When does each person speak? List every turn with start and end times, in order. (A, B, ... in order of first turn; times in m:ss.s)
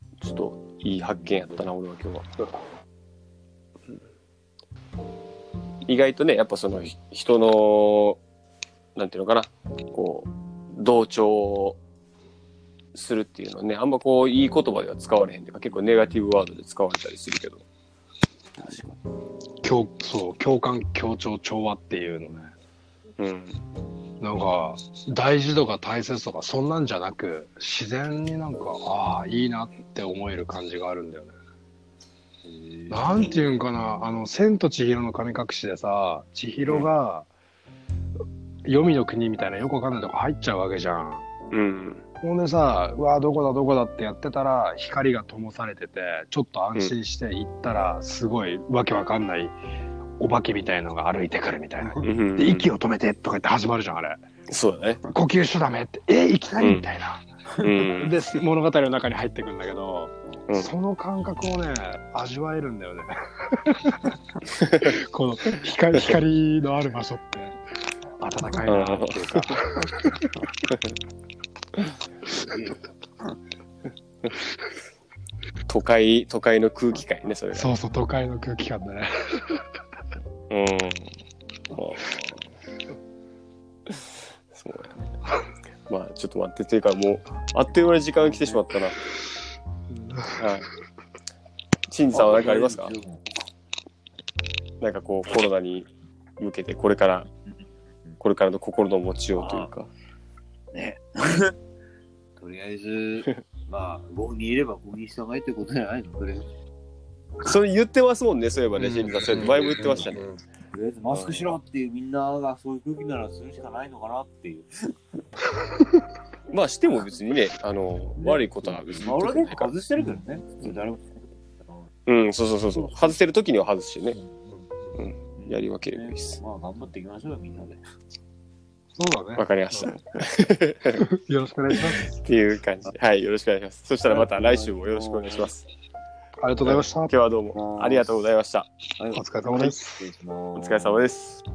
0:00.2-0:02.3 A
0:05.9-0:08.2 A
0:09.0-0:11.8 A
0:12.9-0:17.6 A
0:18.6-0:19.0 B
0:19.6-0:22.5 C
0:23.2-0:23.6 A
0:24.2-0:31.3 C
0:32.5-0:33.4 B
0:32.9-0:37.3 C
0:38.6-0:41.3 C
0:41.5-0:42.0 A
0:42.2-0:49.6 C
0:50.2-0:54.2 C
0:52.0-0:52.7 A
0:54.5-0:55.1 A
0:55.1-1:04.1 C
0:56.6-0:56.8 A
0:57.6-0:58.3 A
1:04.6-1:07.6 C
1:08.2-1:10.3 C
1:08.7-1:09.6 A
1:12.5-1:12.8 B
1:15.7-1:17.8 A
1:17.5-1:19.6 C
1:20.5-1:21.1 A
1:21.7-1:22.4 A
1:24.5-1:25.1 A
1:25.9-1:29.0 A
1:28.2-1:28.6 B
1:29.9-1:30.4 C
1:30.4-1:30.7 A
1:31.9-1:33.0 A
1:32.1-1:33.3 B
1:34.8-1:35.9 A
1:36.4-1:37.3 A
1:38.2-1:39.9 A
1:39.3-1:39.8 B
1:40.7-1:41.5 B
1:42.4-1:46.5 B
1:47.4-1:50.2 A
1:48.8-1:50.4 C
1:50.7-1:54.7 B
1:56.5-1:59.7 A
1:58.2-2:01.9 B
2:02.1-2:04.2 A
2:02.7-2:03.2 B
2:04.3-2:07.8 B
2:05.0-2:06.4 A
2:09.0-2:10.0 C
2:09.4-2:11.0 A
2:11.0-2:12.2 C
2:12.0-2:15.7 A
2:14.1-2:15.5 B
2:16.4-2:17.1 C
2:16.6-2:18.7 A
2:17.5-2:18.2 B
2:19.0-2:21.1 B
2:19.1-2:20.1 C
2:20.6-2:21.4 A